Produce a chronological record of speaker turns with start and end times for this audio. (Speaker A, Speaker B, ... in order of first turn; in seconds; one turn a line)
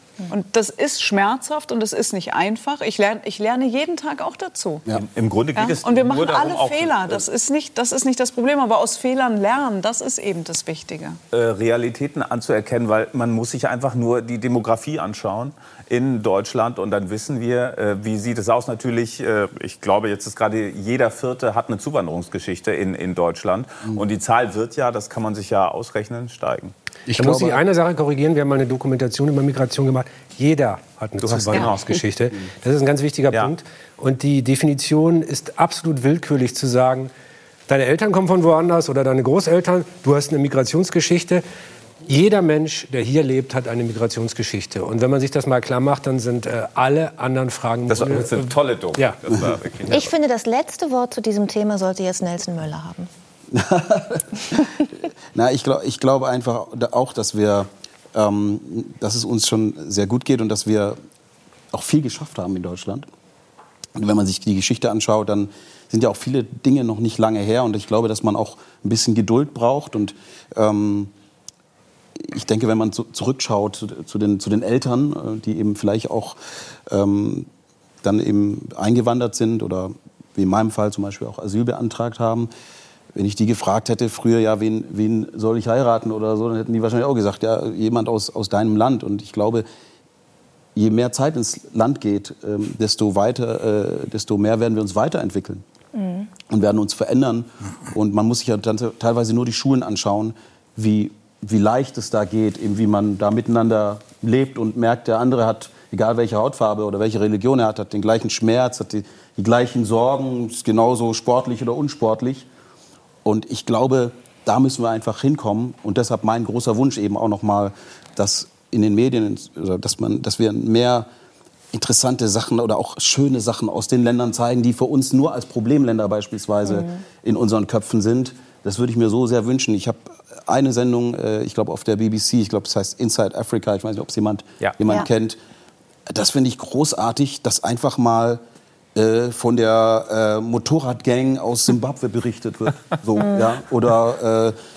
Speaker A: 0.3-4.8
Speaker B: 4.9-7.3
Speaker A: 5.6-11.2
Speaker B: 11.3-26.8
Speaker C: 27.1-27.6
Speaker D: 27.2-37.1
Speaker B: 31.2-32.1
Speaker B: 33.3-33.6
Speaker D: 37.7-41.4
Speaker D: 42.1-49.2
Speaker B: 47.9-50.1
Speaker E: 49.9-53.1
Speaker C: 53.5-54.8
Speaker C: 55.3-61.0
Speaker C: 61.7-63.1
Speaker C: 64.0-71.1
Speaker C: 72.2-76.4
Speaker C: 76.9-77.5
Speaker C: 78.0-82.5
Speaker C: 83.2-89.7
Speaker C: 90.8-95.6
Speaker E: 96.0-96.3
Speaker C: 96.5-112.5
Speaker C: 113.2-121.1
Speaker C: 121.7-135.4
Speaker E: 126.7-127.0
Speaker C: 136.1-138.4
Speaker C: 138.9-144.6